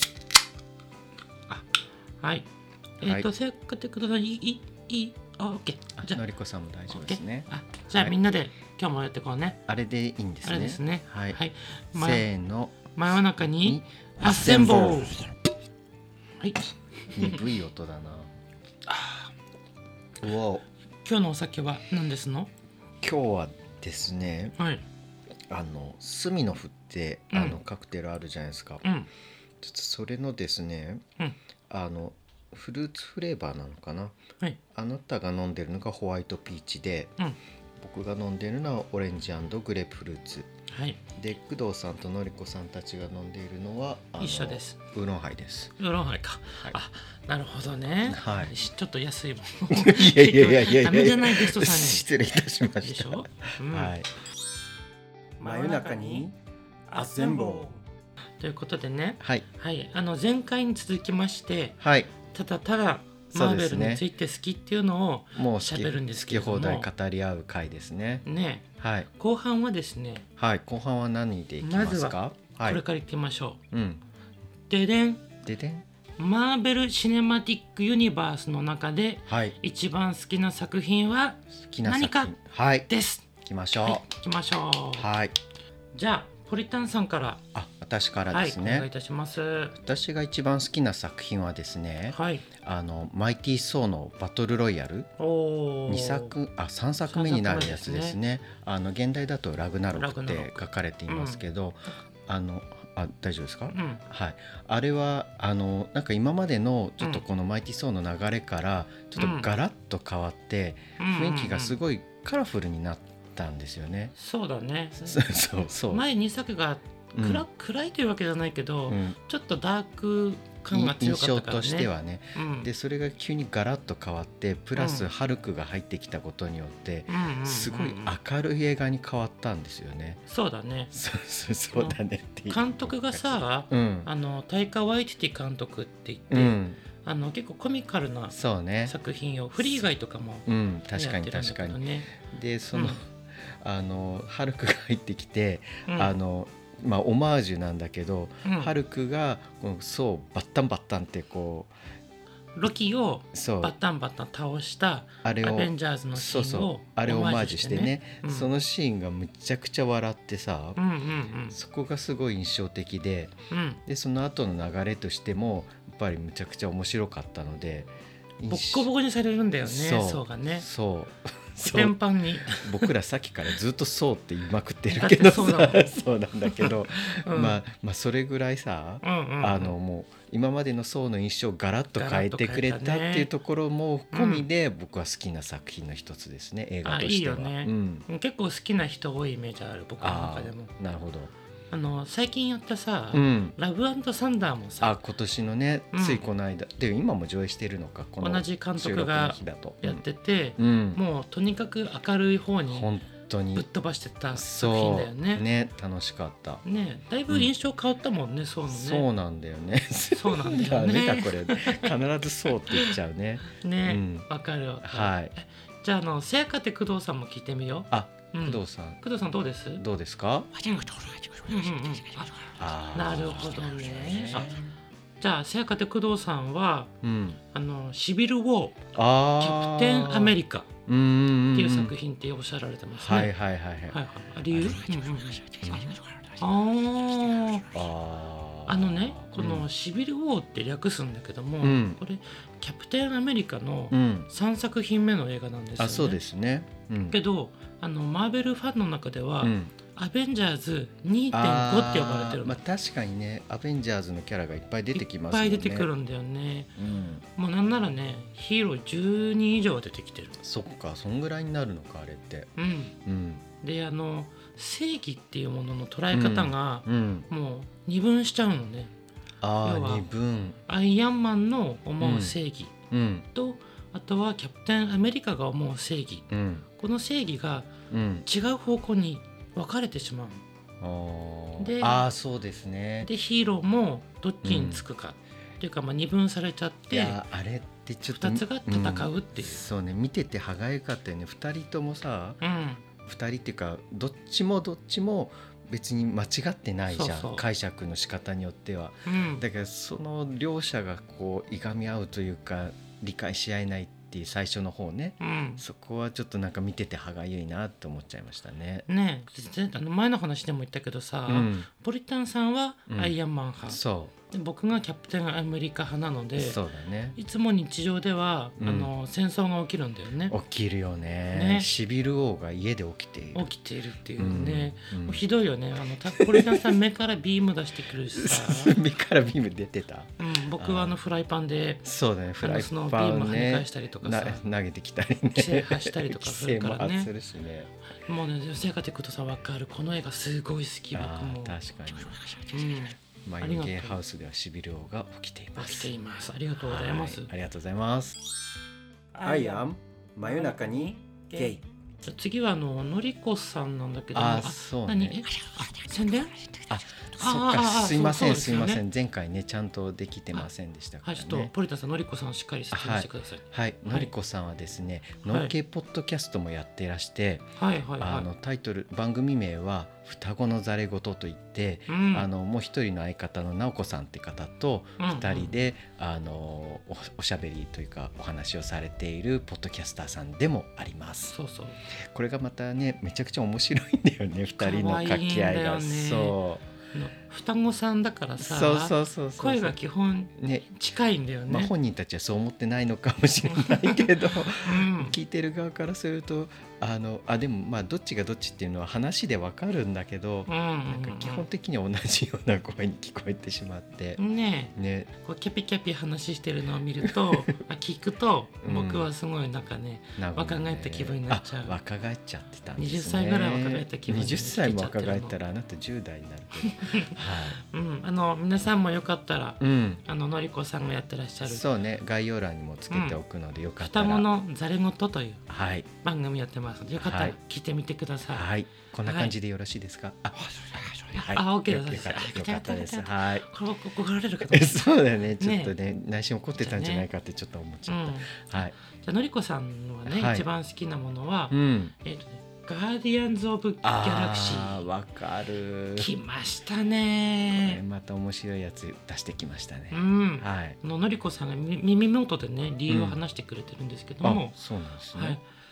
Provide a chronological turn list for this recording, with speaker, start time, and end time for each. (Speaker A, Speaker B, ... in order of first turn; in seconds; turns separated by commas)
Speaker A: 2.2-2.5, Speaker A: 3.0-6.2, Speaker B: 3.0-3.3, Speaker B: 6.0-8.2, Speaker A: 6.9-9.6, Speaker B: 9.7-11.4, Speaker A: 10.4-12.3, Speaker B: 11.9-15.1, Speaker A: 12.9-15.2, Speaker A: 16.4-17.5, Speaker B: 17.1-18.3, Speaker A: 18.9-19.3, Speaker B: 20.2-20.7, Speaker A: 21.1-22.5, Speaker B: 23.0-24.6, Speaker A: 24.6-24.8, Speaker B: 25.5-28.8, Speaker A: 27.3-27.6, Speaker B: 29.6-31.0, Speaker B: 31.7-34.2, Speaker B: 34.7-37.1, Speaker B: 37.8-40.5, Speaker A: 40.7-41.0, Speaker B: 41.1-45.8, Speaker A: 44.2-44.8, Speaker A: 45.8-52.0, Speaker B: 48.1-48.5, Speaker B: 49.7-54.1, Speaker A: 52.8-53.9, Speaker A: 55.4-56.2, Speaker B: 55.4-56.4, Speaker A: 56.9-57.8, Speaker B: 56.9-57.7, Speaker A: 58.4-61.8, Speaker B: 61.8-62.1, Speaker A: 62.3-66.9, Speaker B: 63.3-64.0, Speaker B: 65.3-68.2, Speaker A: 68.2-70.2, Speaker B: 68.8-69.1, Speaker B: 70.4-72.8, Speaker A: 71.6-73.6, Speaker B: 73.7-74.0, Speaker A: 74.7-75.2, Speaker B: 75.4-75.8, Speaker A: 76.2-82.3, Speaker B: 79.3-79.6, Speaker B: 81.5-82.9, Speaker A: 82.9-83.2, Speaker B: 83.4-84.0, Speaker A: 83.8-85.1, Speaker B: 84.9-85.3, Speaker A: 85.9-87.4, Speaker B: 87.5-88.9, Speaker A: 88.3-89.8, Speaker B: 89.8-95.1, Speaker A: 92.1-92.4, Speaker A: 95.2-96.3, Speaker B: 95.9-114.1, Speaker A: 97.1-98.2, Speaker A: 99.9-101.4, Speaker A: 103.7-104.0, Speaker A: 109.2-109.5, Speaker A: 111.0-111.8, Speaker A: 114.2-115.2, Speaker B: 115.0-116.1, Speaker A: 115.9-122.7, Speaker B: 117.2-117.4, Speaker B: 118.9-119.2, Speaker B: 120.7-130.2, Speaker A: 124.8-125.1, Speaker A: 127.1-128.2, Speaker A: 130.3-130.9, Speaker B: 130.9-134.1, Speaker A: 132.5-142.1, Speaker B: 136.3-136.8, Speaker B: 138.3-138.9, Speaker B: 140.5-151.7, Speaker A: 142.7-143.0, Speaker A: 145.9-146.2, Speaker A: 148.4-148.8, Speaker A: 152.6-158.5, Speaker B: 153.3-153.8, Speaker B: 155.2-160.8, Speaker A: 160.8-161.6, Speaker B: 161.5-163.3, Speaker A: 163.5-163.8, Speaker B: 163.9-168.9, Speaker A: 168.5-170.7, Speaker B: 169.6-188.1, Speaker A: 171.7-172.9, Speaker A: 174.9-175.9, Speaker A: 176.5-177.6, Speaker A: 179.0-179.8, Speaker A: 182.0-183.3, Speaker A: 184.1-184.5, Speaker A: 186.8-190.7, Speaker B: 190.0-191.3, Speaker A: 191.7-195.0, Speaker B: 193.1-193.6, Speaker B: 194.8-200.0, Speaker A: 195.9-196.2, Speaker A: 198.2-202.9, Speaker B: 200.6-201.0, Speaker B: 202.7-203.7, Speaker A: 203.6-205.5, Speaker B: 204.3-206.6, Speaker A: 206.6-209.1, Speaker B: 208.7-214.3, Speaker A: 210.1-211.9, Speaker A: 212.7-213.0, Speaker A: 213.5-219.8, Speaker B: 214.8-215.3, Speaker B: 217.9-219.0, Speaker B: 219.8-220.5, Speaker A: 220.6-224.6, Speaker B: 222.6-224.7, Speaker A: 225.2-226.9, Speaker B: 227.0-227.4, Speaker A: 227.5-228.8, Speaker B: 228.9-230.4, Speaker A: 229.4-230.7, Speaker B: 230.9-231.9, Speaker A: 231.5-233.3, Speaker B: 233.0-234.0, Speaker A: 233.9-237.7, Speaker B: 234.5-234.8, Speaker B: 235.6-235.9, Speaker B: 237.7-239.7, Speaker A: 238.7-246.2, Speaker B: 241.6-242.0, Speaker B: 243.9-244.3, Speaker B: 245.8-247.2, Speaker A: 247.1-252.6, Speaker B: 249.4-249.7, Speaker B: 251.3-255.9, Speaker A: 254.9-256.8, Speaker B: 256.8-257.2, Speaker A: 257.4-260.4, Speaker B: 260.4-262.5, Speaker A: 262.6-262.9, Speaker B: 263.0-263.4, Speaker A: 263.6-268.9, Speaker B: 266.1-267.3, Speaker B: 269.4-270.6, Speaker A: 269.6-270.1, Speaker A: 270.7-272.8, Speaker B: 272.0-272.4, Speaker B: 272.9-273.3, Speaker A: 273.3-277.7, Speaker B: 276.3-276.7, Speaker B: 277.9-278.3, Speaker A: 278.3-280.4, Speaker B: 280.8-283.1, Speaker A: 281.6-282.1, Speaker A: 283.0-287.2, Speaker B: 284.4-284.9, Speaker B: 286.9-292.4, Speaker A: 288.1-289.6, Speaker A: 292.4-292.8, Speaker B: 293.1-308.9, Speaker A: 296.9-297.4, Speaker A: 299.1-299.4, Speaker A: 305.2-305.6, Speaker A: 308.9-313.8, Speaker B: 311.3-311.7, Speaker B: 313.7-314.1, Speaker A: 314.3-316.6, Speaker B: 316.4-317.2, Speaker A: 317.2-320.4, Speaker B: 318.6-318.9, Speaker B: 320.3-323.5, Speaker A: 321.3-321.7, Speaker A: 323.3-328.8, Speaker B: 324.2-325.2, Speaker B: 326.2-326.8, Speaker B: 328.1-331.0, Speaker A: 330.2-331.8, Speaker B: 331.8-337.7, Speaker A: 332.4-334.4, Speaker A: 335.3-337.1, Speaker A: 338.1-341.6, Speaker B: 340.9-342.3, Speaker A: 342.4-344.0, Speaker B: 343.2-345.9, Speaker A: 345.6-347.3, Speaker B: 346.6-348.2, Speaker A: 349.1-349.6, Speaker B: 349.2-351.6, Speaker A: 350.2-356.6, Speaker B: 354.1-355.2, Speaker B: 356.7-361.5, Speaker A: 357.2-358.8, Speaker A: 361.0-364.1, Speaker B: 362.7-367.5, Speaker A: 365.3-365.5, Speaker A: 367.6-368.3, Speaker B: 368.0-381.3, Speaker A: 371.9-372.3, Speaker A: 375.0-375.5, Speaker A: 381.3-381.8, Speaker B: 381.9-386.7, Speaker A: 384.6-386.4, Speaker A: 386.9-391.7, Speaker B: 388.4-389.8, Speaker B: 390.4-390.7, Speaker B: 391.5-404.2, Speaker A: 393.5-395.2, Speaker A: 400.5-401.4, Speaker A: 404.2-411.8, Speaker B: 404.8-405.1, Speaker B: 407.1-407.4, Speaker B: 408.6-409.1, Speaker B: 410.2-417.6, Speaker A: 412.8-415.4, Speaker A: 416.6-421.6, Speaker B: 419.6-420.0, Speaker B: 421.4-424.3, Speaker A: 422.9-423.2, Speaker A: 423.8-425.4, Speaker B: 425.5-425.9, Speaker A: 426.0-428.4, Speaker B: 427.0-427.4, Speaker B: 428.3-430.3, Speaker A: 429.1-429.3, Speaker A: 430.6-435.7, Speaker B: 431.1-433.5, Speaker B: 434.4-438.8, Speaker A: 436.6-437.1, Speaker A: 437.9-444.8, Speaker B: 440.1-440.4, Speaker B: 441.5-441.9, Speaker B: 443.8-446.1, Speaker A: 446.0-447.8, Speaker B: 447.5-450.8, Speaker A: 449.9-454.6, Speaker B: 452.9-453.2, Speaker B: 454.2-455.4, Speaker A: 455.1-455.4